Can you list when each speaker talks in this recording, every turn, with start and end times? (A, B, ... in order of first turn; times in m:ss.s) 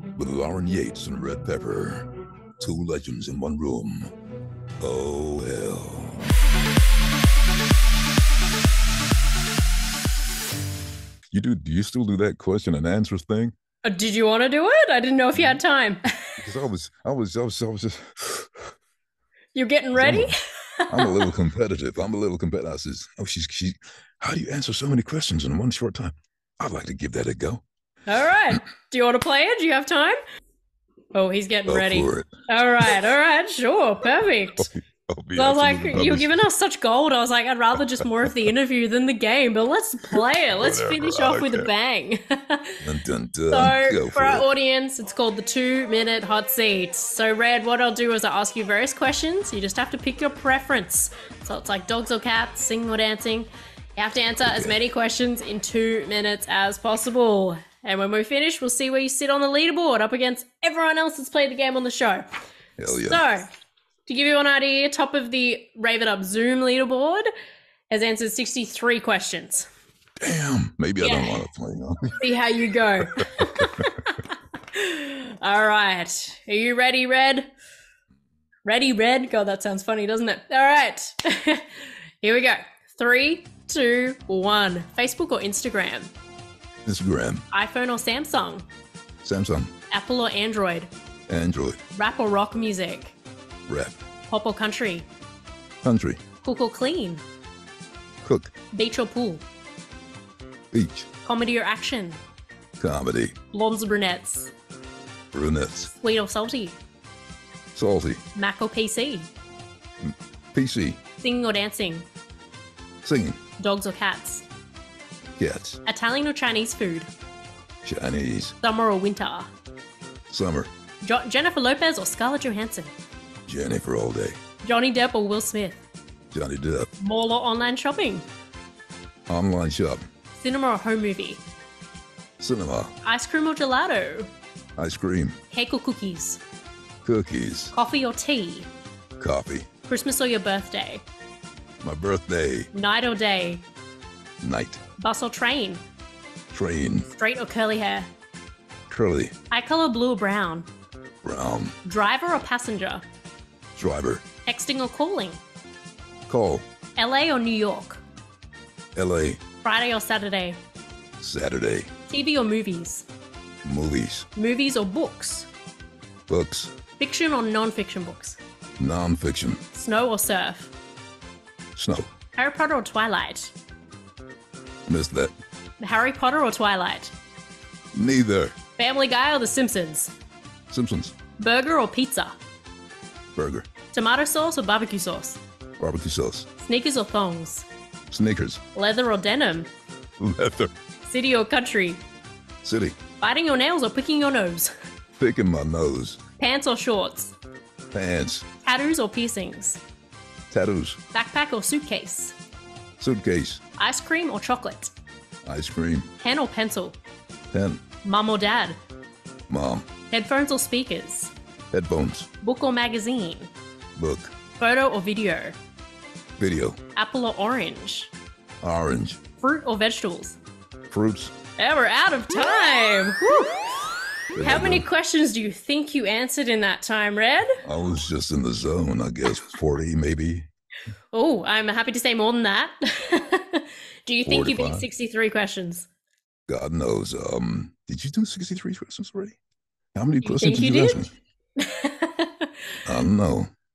0:00.2-0:04.1 A
0:04.8-0:06.3 A
0:11.3-0:13.5 A
0:13.8-0:16.2 B
0:16.4-0:18.7 A
0:19.5-0:21.3 B
0:20.0-0:20.3 A
0:20.9-0:27.6 A
0:28.1-0:30.2 B
0:31.1-0:34.7 B
0:31.7-0:32.9 A
0:34.6-0:36.4 A
0:35.4-0:42.8 B
0:40.6-0:41.7 A
0:42.8-0:44.5 A
0:43.5-1:02.3 B
0:54.4-0:54.8 A
1:02.8-1:03.2 A
1:02.9-1:03.5 B
1:04.1-1:07.3 B
1:07.9-1:09.7 B
1:10.2-1:12.2 A
1:11.0-1:11.4 B
1:12.2-1:17.5 B
1:13.4-1:13.8 A
1:18.6-1:26.1 B
1:26.9-1:27.5 A
1:27.5-1:28.7 B
1:29.2-1:29.7 A
1:29.9-1:30.9 B
1:31.3-1:31.8 A
1:32.0-1:33.2 B
1:33.7-1:34.0 A
1:34.3-1:35.1 B
1:35.8-1:36.2 A
1:36.4-1:37.2 B
1:38.2-1:38.5 A
1:38.7-1:39.4 B
1:40.7-1:41.1 A
1:41.2-1:42.2 B
1:42.8-1:43.4 A
1:43.5-1:44.5 B
1:45.3-1:45.9 A
1:45.9-1:46.8 B
1:47.8-1:48.2 A
1:48.4-1:49.3 B
1:50.0-1:51.0 A
1:51.2-1:52.1 B
1:53.0-1:53.4 A
1:53.6-1:54.4 B
1:55.4-1:55.8 A
1:55.9-1:57.1 B
1:57.8-1:58.6 A
1:58.6-1:59.5 B
2:00.3-2:00.7 A
2:01.0-2:02.9 B
2:03.5-2:04.4 A
2:04.6-2:05.8 B
2:06.3-2:06.9 A
2:07.0-2:08.3 B
2:09.3-2:10.1 A
2:10.4-2:11.4 B
2:12.4-2:13.0 A
2:13.0-2:14.3 B
2:14.8-2:15.4 A
2:15.5-2:16.4 B
2:17.0-2:17.8 A
2:17.7-2:18.7 B
2:19.2-2:19.7 A
2:19.9-2:21.0 B
2:21.8-2:22.7 A
2:22.7-2:23.7 B
2:24.4-2:24.8 A
2:25.0-2:25.8 B
2:26.5-2:27.1 A
2:27.1-2:28.1 B
2:28.9-2:29.4 A
2:29.5-2:30.7 B
2:31.2-2:31.8 A
2:31.8-2:33.0 B
2:33.8-2:34.2 A
2:34.5-2:35.4 B
2:36.3-2:36.7 A
2:37.0-2:38.0 B
2:39.0-2:39.4 A
2:39.6-2:40.6 B
2:41.2-2:41.9 A
2:42.1-2:43.1 B
2:43.6-2:44.3 A
2:44.4-2:45.5 B
2:46.3-2:46.7 A
2:47.0-2:48.4 B
2:48.8-2:49.6 A
2:49.7-2:50.7 B
2:51.8-2:52.1 A
2:52.4-2:53.5 B
2:54.9-2:55.3 A
2:55.8-2:57.1 B
2:57.9-2:58.6 A
2:58.8-3:00.1 B
3:00.7-3:01.2 A
3:01.4-3:02.3 B
3:03.4-3:03.7 A
3:03.9-3:05.4 B
3:05.8-3:06.5 A
3:06.6-3:07.7 B
3:08.1-3:08.6 A
3:08.8-3:09.7 B
3:10.2-3:10.7 A
3:11.0-3:12.0 B
3:12.6-3:13.0 A
3:13.2-3:14.7 B
3:15.2-3:16.2 A
3:16.4-3:17.4 B
3:17.9-3:18.5 A
3:18.6-3:19.8 B
3:20.5-3:21.0 A
3:21.1-3:22.4 B
3:23.0-3:23.6 A
3:23.8-3:24.9 B
3:25.4-3:26.1 A
3:26.2-3:27.0 B
3:27.5-3:27.8 A
3:28.0-3:28.8 B
3:29.5-3:29.9 A
3:30.1-3:31.3 B
3:31.7-3:32.3 A
3:32.4-3:33.5 B
3:34.0-3:34.3 A
3:34.6-3:35.6 B
3:36.4-3:36.8 A
3:37.0-3:38.1 B
3:38.6-3:39.2 A
3:39.4-3:40.4 B
3:40.9-3:41.4 A
3:41.6-3:43.8 B
3:44.3-3:47.5 B
3:44.4-3:44.9 A
3:47.6-3:50.5 A
3:51.1-3:55.9 B
3:54.2-3:54.9 A
3:56.5-3:59.4 A
4:00.0-4:01.1 A
4:00.2-4:02.5 B
4:02.8-4:03.5 A